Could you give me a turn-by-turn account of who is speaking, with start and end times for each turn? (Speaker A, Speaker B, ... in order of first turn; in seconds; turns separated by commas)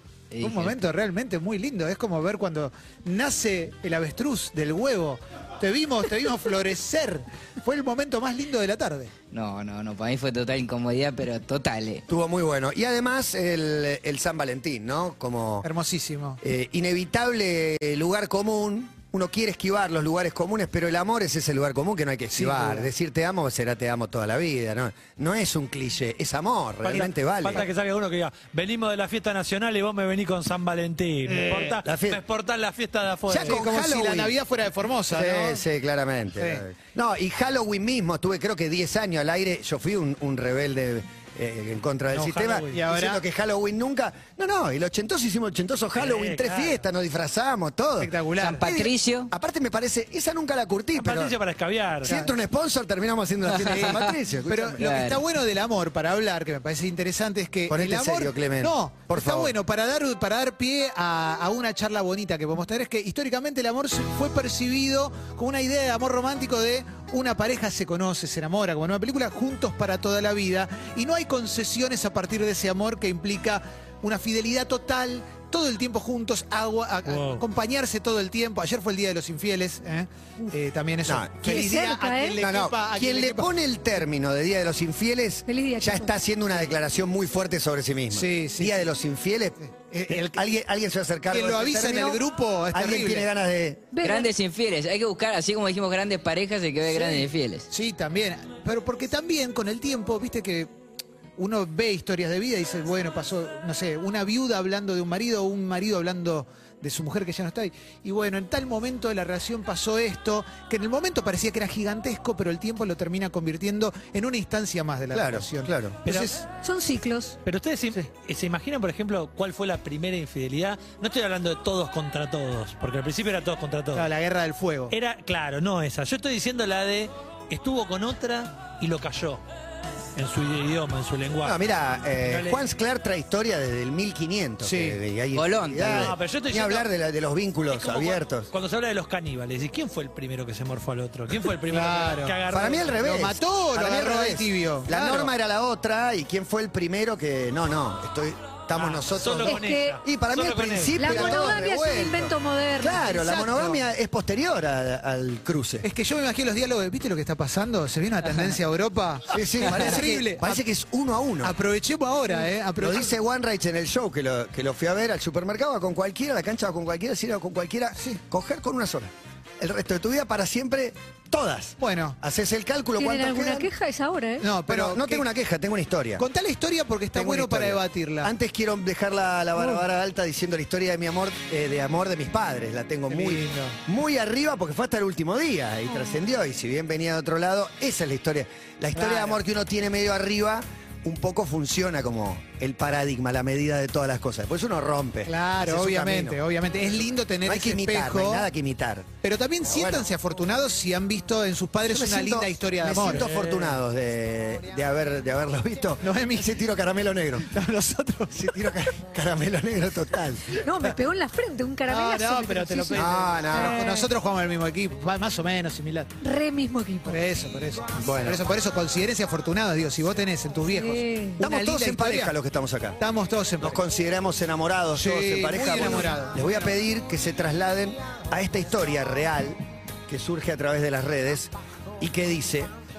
Speaker A: 0.3-0.7, Speaker B: 0.4-9.1, Speaker A: 9.3-12.1, Speaker C: 12.1-15.7, Speaker B: 15.6-16.4, Speaker C: 16.4-27.6, Speaker B: 22.4-22.9, Speaker D: 26.8-33.6, Speaker B: 26.9-27.7, Speaker B: 31.3-31.8, Speaker C: 31.8-32.2, Speaker C: 33.3-34.4, Speaker B: 33.4-35.6, Speaker C: 35.1-51.4, Speaker D: 42.1-42.8, Speaker B: 42.7-43.2, Speaker D: 45.9-46.8, Speaker B: 48.0-48.6, Speaker A: 48.4-49.3, Speaker D: 51.0-52.1, Speaker C: 52.0-55.2, Speaker B: 52.1-52.4, Speaker B: 53.5-83.5, Speaker A: 53.6-54.1, Speaker A: 54.8-55.2, Speaker C: 57.7-59.5, Speaker D: 77.1-77.4, Speaker C: 81.0-81.7, Speaker E: 81.4-82.4, Speaker C: 82.4-94.0, Speaker E: 85.5-86.1, Speaker B: 88.1-88.8, Speaker B: 89.6-90.4, Speaker B: 91.3-93.3, Speaker E: 93.9-94.3, Speaker A: 94.0-97.7, Speaker B: 96.9-100.7, Speaker B: 101.4-116.4, Speaker C: 115.1-116.0, Speaker D: 116.1-116.3, Speaker E: 116.6-117.4, Speaker D: 117.4-124.1, Speaker B: 123.9-124.9, Speaker D: 124.9-129.4, Speaker D: 130.2-131.6, Speaker C: 131.4-138.5, Speaker D: 132.2-132.6, Speaker B: 134.6-135.0, Speaker A: 135.3-136.1, Speaker D: 135.8-136.9, Speaker D: 137.7-143.0, Speaker B: 141.7-142.3, Speaker C: 142.5-155.9, Speaker B: 143.0-145.3, Speaker D: 148.8-151.2, Speaker E: 149.4-150.0, Speaker E: 151.0-153.5, Speaker B: 153.2-153.8, Speaker B: 155.8-160.6, Speaker C: 159.3-161.6, Speaker B: 161.4-163.1, Speaker C: 162.8-173.7, Speaker B: 171.8-172.2, Speaker E: 173.0-174.5, Speaker B: 174.4-175.2, Speaker C: 174.7-176.2, Speaker B: 176.2-178.3, Speaker C: 177.1-196.4, Speaker B: 183.1-183.8, Speaker B: 188.9-189.4, Speaker B: 195.3-198.5, Speaker C: 197.4-199.1, Speaker B: 199.2-203.3, Speaker C: 199.6-200.1, Speaker C: 201.8-207.5, Speaker D: 202.9-203.8, Speaker B: 206.0-206.5, Speaker B: 207.5-208.8, Speaker C: 208.3-210.8, Speaker E: 210.6-214.1, Speaker B: 211.9-216.1, Speaker C: 212.9-213.9, Speaker E: 216.2-217.2, Speaker B: 217.1-222.3, Speaker C: 218.0-218.4, Speaker E: 220.8-221.4, Speaker C: 221.4-223.0, Speaker B: 223.0-223.8, Speaker C: 223.6-232.7, Speaker B: 225.0-226.4